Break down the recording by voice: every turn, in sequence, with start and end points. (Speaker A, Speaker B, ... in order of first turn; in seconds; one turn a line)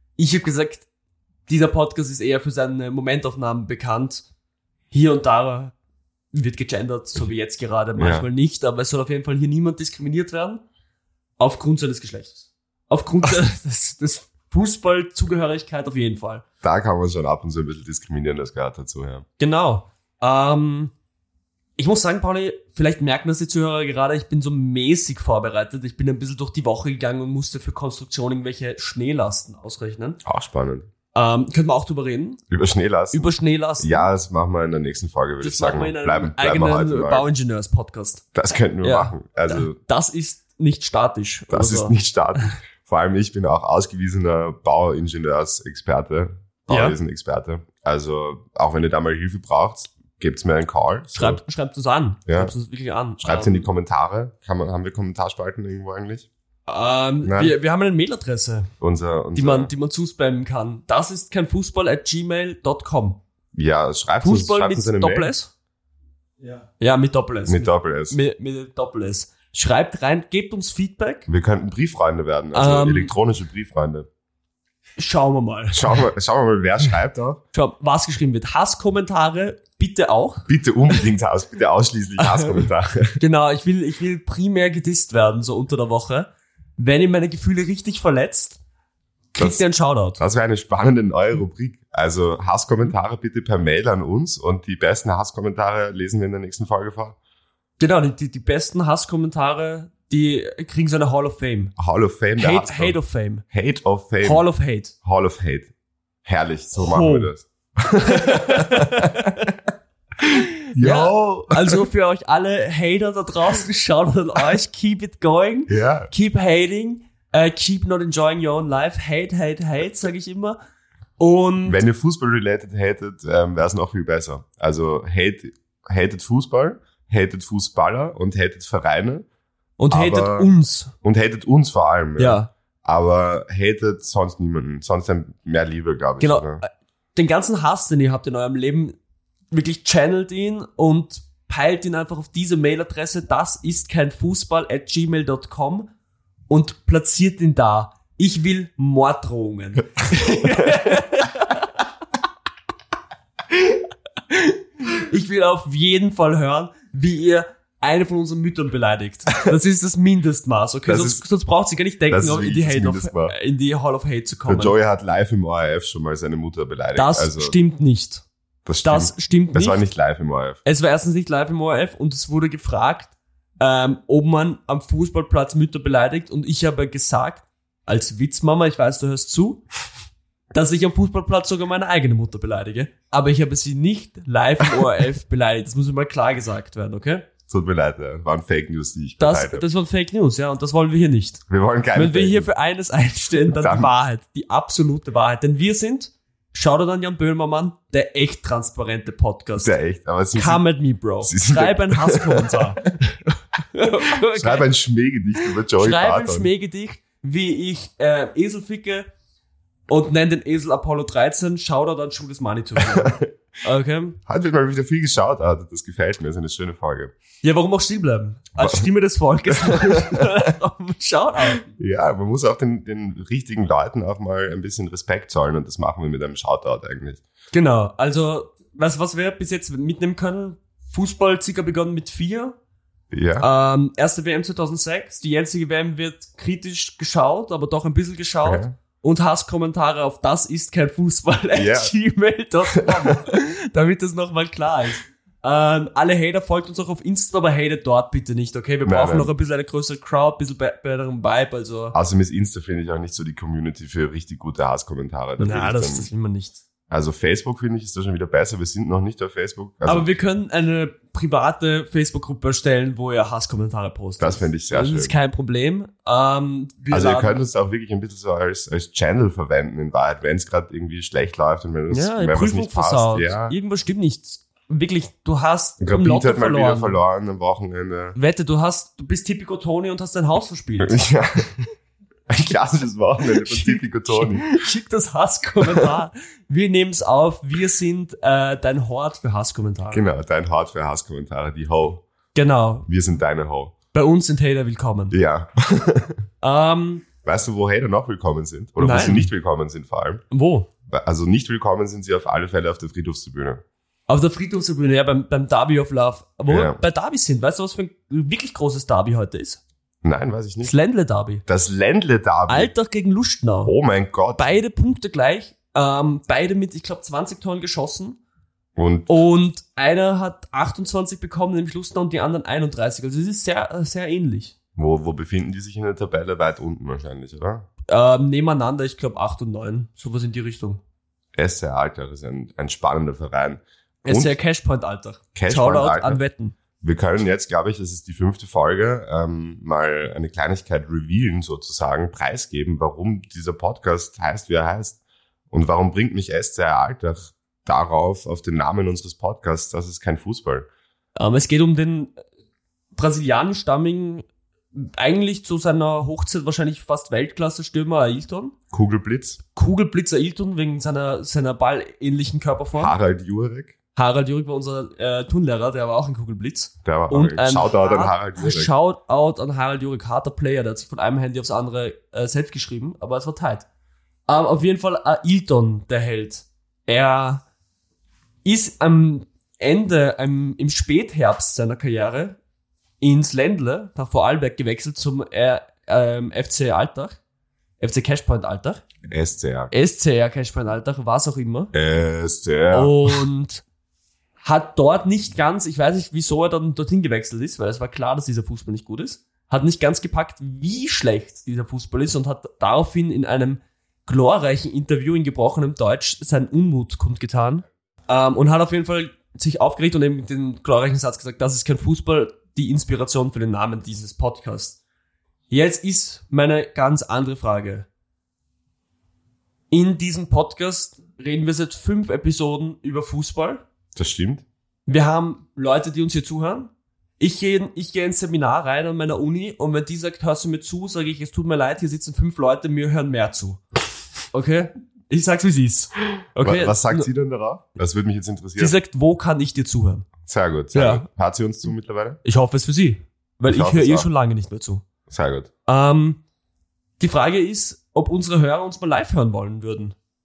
Speaker A: 0.2-0.9
Speaker A: 1.5-4.2
Speaker A: 4.9-5.7
Speaker A: 6.3-10.6
Speaker B: 8.0-8.3
Speaker A: 11.4-16.4
Speaker B: 16.6-19.2
Speaker A: 19.4-20.9
Speaker A: 21.8-30.2
Speaker B: 30.2-30.9
Speaker A: 31.1-32.4
Speaker B: 32.5-37.2
Speaker A: 33.1-34.1
Speaker A: 35.4-38.2
Speaker B: 38.4-39.8
Speaker A: 38.8-42.0
Speaker B: 41.5-51.4
Speaker A: 46.7-47.0
Speaker A: 51.1-53.7
Speaker B: 52.3-52.5
Speaker B: 53.2-56.3
Speaker A: 56.7-58.7
Speaker B: 57.2-57.5
Speaker B: 58.8-59.7
Speaker A: 59.4-63.2
Speaker B: 63.5-65.3
Speaker A: 64.2-65.5
Speaker A: 66.4-71.3
Speaker B: 67.5-68.2
Speaker B: 71.3-74.1
Speaker A: 72.5-73.1
Speaker A: 75.0-76.0
Speaker B: 75.7-77.4
Speaker A: 77.5-80.5
Speaker B: 80.5-83.2
Speaker A: 82.2-88.6
Speaker A: 89.3-90.2
Speaker B: 89.4-89.6
Speaker B: 90.2-97.2
Speaker A: 97.8-101.7
Speaker B: 101.8-103.0
Speaker A: 102.4-103.4
Speaker B: 103.5-104.4
Speaker A: 104.2-104.9
Speaker B: 105.0-105.7
Speaker B: 106.2-109.3
Speaker A: 106.7-107.3
Speaker A: 108.0-109.5
Speaker B: 110.7-111.8
Speaker A: 110.8-120.6
Speaker B: 115.7-116.1
Speaker A: 121.2-121.8
Speaker B: 121.7-129.2
Speaker A: 129.8-130.9
Speaker B: 129.9-130.5
Speaker B: 131.0-136.6
Speaker A: 132.2-132.5
Speaker A: 136.2-139.0
Speaker A: 139.5-145.9
Speaker A: 146.5-151.7
Speaker A: 154.3-164.8
Speaker B: 160.9-161.2
Speaker B: 162.1-163.3
Speaker B: 164.5-167.5
Speaker A: 166.9-168.2
Speaker B: 168.6-170.6
Speaker A: 168.8-169.8
Speaker A: 170.6-179.6
Speaker A: 180.5-187.3
Speaker B: 187.5-189.7
Speaker A: 189.2-191.4
Speaker B: 191.5-192.5
Speaker A: 191.9-199.8
Speaker B: 193.5-193.9
Speaker B: 199.6-200.6
Speaker A: 200.3-203.1
Speaker B: 201.2-202.6
Speaker A: 203.7-204.7
Speaker B: 204.3-206.5
Speaker A: 205.8-209.1
Speaker A: 209.9-214.2
Speaker B: 212.9-213.3
Speaker B: 214.2-217.1
Speaker A: 217.4-221.7
Speaker B: 218.6-218.9
Speaker B: 219.5-220.3
Speaker B: 221.6-227.2
Speaker A: 227.5-232.6
Speaker B: 233.1-233.5
Speaker A: 233.4-251.9
Speaker B: 238.4-238.8
Speaker B: 241.5-241.9
Speaker B: 242.8-243.2
Speaker B: 248.8-249.3
Speaker B: 251.9-256.1
Speaker A: 255.4-256.6
Speaker B: 256.9-260.1
Speaker A: 259.9-267.4
Speaker B: 264.2-265.1
Speaker B: 266.9-273.5
Speaker A: 271.9-277.0
Speaker B: 275.8-278.2
Speaker A: 278.1-281.1
Speaker B: 280.8-281.5
Speaker B: 282.3-284.6
Speaker A: 283.3-290.0
Speaker B: 289.9-292.0
Speaker A: 292.4-292.9
Speaker B: 292.9-293.7
Speaker A: 293.9-295.1
Speaker B: 295.1-296.2
Speaker A: 296.4-297.1
Speaker B: 297.2-300.2
Speaker A: 298.8-299.3
Speaker A: 300.3-300.7
Speaker B: 300.9-303.6
Speaker A: 304.1-309.6
Speaker B: 306.5-306.8
Speaker B: 310.0-310.7
Speaker A: 310.6-311.4
Speaker B: 311.5-312.7
Speaker A: 312.5-313.7
Speaker B: 313.6-314.6
Speaker A: 314.4-318.2
Speaker B: 318.8-319.1
Speaker A: 319.1-324.5
Speaker B: 324.8-327.7
Speaker A: 327.9-330.8
Speaker B: 331.4-334.4
Speaker A: 334.0-336.5
Speaker B: 335.4-336.2
Speaker B: 336.8-345.0
Speaker B: 345.5-350.6
Speaker A: 351.1-352.1
Speaker A: 352.9-358.6
Speaker B: 358.7-359.4
Speaker A: 359.5-362.9
Speaker B: 362.7-363.7
Speaker A: 363.9-373.6
Speaker B: 366.8-368.7
Speaker A: 374.3-377.4
Speaker A: 378.4-382.4
Speaker A: 383.0-387.2
Speaker A: 387.8-388.8
Speaker B: 389.1-389.7
Speaker A: 389.7-391.7
Speaker B: 391.7-393.2
Speaker A: 392.7-393.6
Speaker A: 394.4-414.8
Speaker A: 415.5-417.9
Speaker A: 419.7-423.6
Speaker B: 423.9-424.4
Speaker A: 424.9-433.6
Speaker A: 434.3-437.1
Speaker B: 436.4-438.7
Speaker A: 438.6-440.1
Speaker B: 440.2-442.2
Speaker A: 440.7-441.0
Speaker A: 442.2-444.9
Speaker B: 443.4-444.1
Speaker B: 445.1-445.5
Speaker A: 445.6-446.2
Speaker A: 447.0-449.9